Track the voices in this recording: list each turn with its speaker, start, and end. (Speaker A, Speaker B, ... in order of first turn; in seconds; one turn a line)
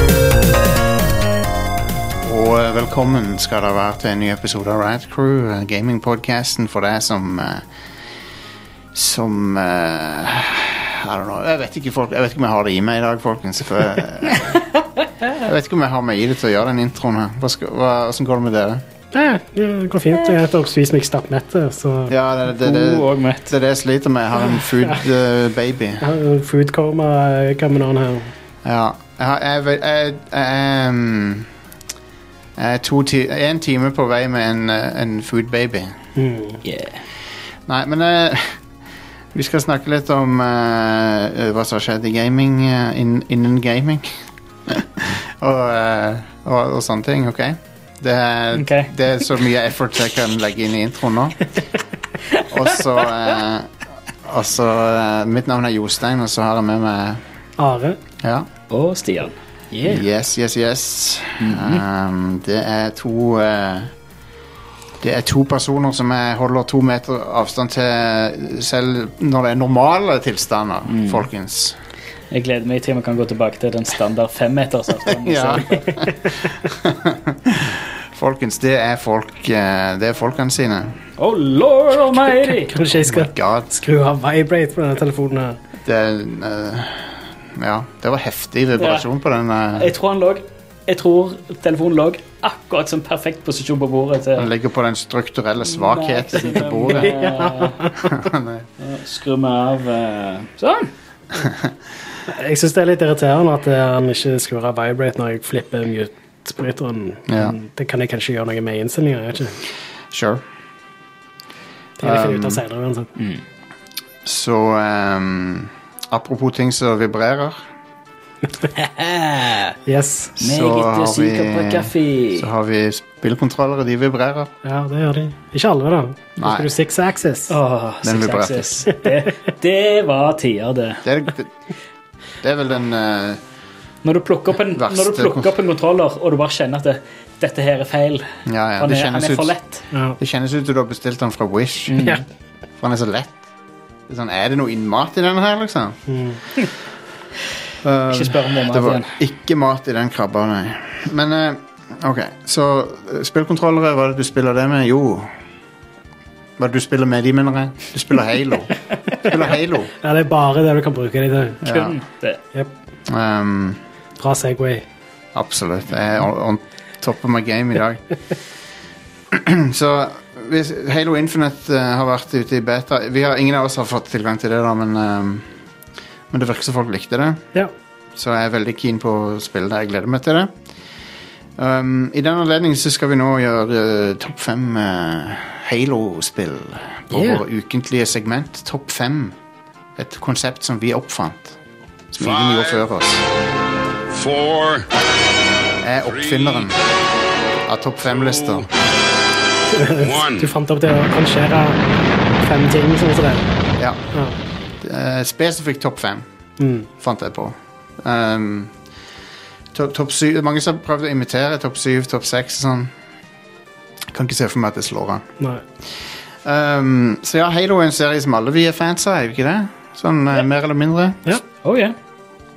Speaker A: 2.2-7.7
Speaker A: 8.9-14.7
Speaker A: 15.3-18.8
Speaker B: 19.1-22.1
Speaker A: 22.1-26.1
Speaker C: 22.6-23.5
Speaker B: 26.0-28.3
Speaker A: 28.6-31.5
Speaker A: 32.6-36.0
Speaker B: 36.2-36.6
Speaker C: 36.6-37.0
Speaker A: 37.7-38.6
Speaker A: 39.3-51.5
Speaker C: 48.5-48.9
Speaker A: 52.5-53.7
Speaker A: 54.2-57.2
Speaker B: 57.6-58.0
Speaker A: 58.2-58.5
Speaker C: 58.7-59.3
Speaker B: 59.7-60.0
Speaker A: 59.8-63.9
Speaker C: 61.4-61.8
Speaker A: 65.0-71.8
Speaker C: 70.9-71.2
Speaker C: 72.3-76.0
Speaker A: 75.1-81.0
Speaker C: 81.2-82.7
Speaker B: 82.3-85.6
Speaker A: 83.0-83.7
Speaker A: 85.8-89.9
Speaker C: 88.8-89.1
Speaker C: 89.7-94.5
Speaker A: 94.4-97.3
Speaker C: 95.7-98.1
Speaker B: 97.0-98.0
Speaker A: 98.0-98.7
Speaker C: 98.8-100.9
Speaker A: 101.4-101.7
Speaker B: 102.3-109.6
Speaker A: 107.3-107.6
Speaker A: 110.1-110.4
Speaker B: 112.0-113.1
Speaker A: 112.0-112.6
Speaker A: 114.2-117.6
Speaker C: 118.8-119.8
Speaker B: 119.9-120.4
Speaker C: 120.4-122.5
Speaker A: 120.4-124.5
Speaker B: 124.6-127.5
Speaker A: 126.4-126.7
Speaker C: 127.5-131.0
Speaker A: 128.0-128.8
Speaker A: 131.0-131.5
Speaker A: 132.4-133.4
Speaker C: 134.0-139.8
Speaker A: 134.7-135.5
Speaker A: 138.5-139.5
Speaker B: 139.9-140.2
Speaker A: 140.2-142.1
Speaker C: 141.9-142.2
Speaker A: 142.8-143.4
Speaker A: 144.1-146.0
Speaker B: 146.1-146.4
Speaker A: 147.8-155.3
Speaker C: 148.1-149.1
Speaker A: 156.6-159.9
Speaker B: 160.0-161.7
Speaker C: 161.6-162.4
Speaker A: 161.6-162.0
Speaker A: 163.1-163.8
Speaker B: 164.2-164.9
Speaker A: 165.3-168.1
Speaker A: 169.3-175.5
Speaker A: 176.3-177.5
Speaker A: 178.2-180.5
Speaker A: 181.6-189.4
Speaker B: 187.1-187.4
Speaker A: 190.0-191.6
Speaker A: 192.1-193.2
Speaker D: 192.3-192.8
Speaker D: 194.1-194.9
Speaker A: 195.8-196.8
Speaker D: 196.2-196.7
Speaker A: 197.7-198.7
Speaker B: 199.7-201.8
Speaker D: 200.0-200.5
Speaker B: 202.4-203.5
Speaker A: 204.8-206.3
Speaker B: 206.6-206.9
Speaker A: 207.0-208.7
Speaker A: 209.7-212.9
Speaker A: 214.1-215.2
Speaker A: 216.4-221.4
Speaker C: 221.6-221.9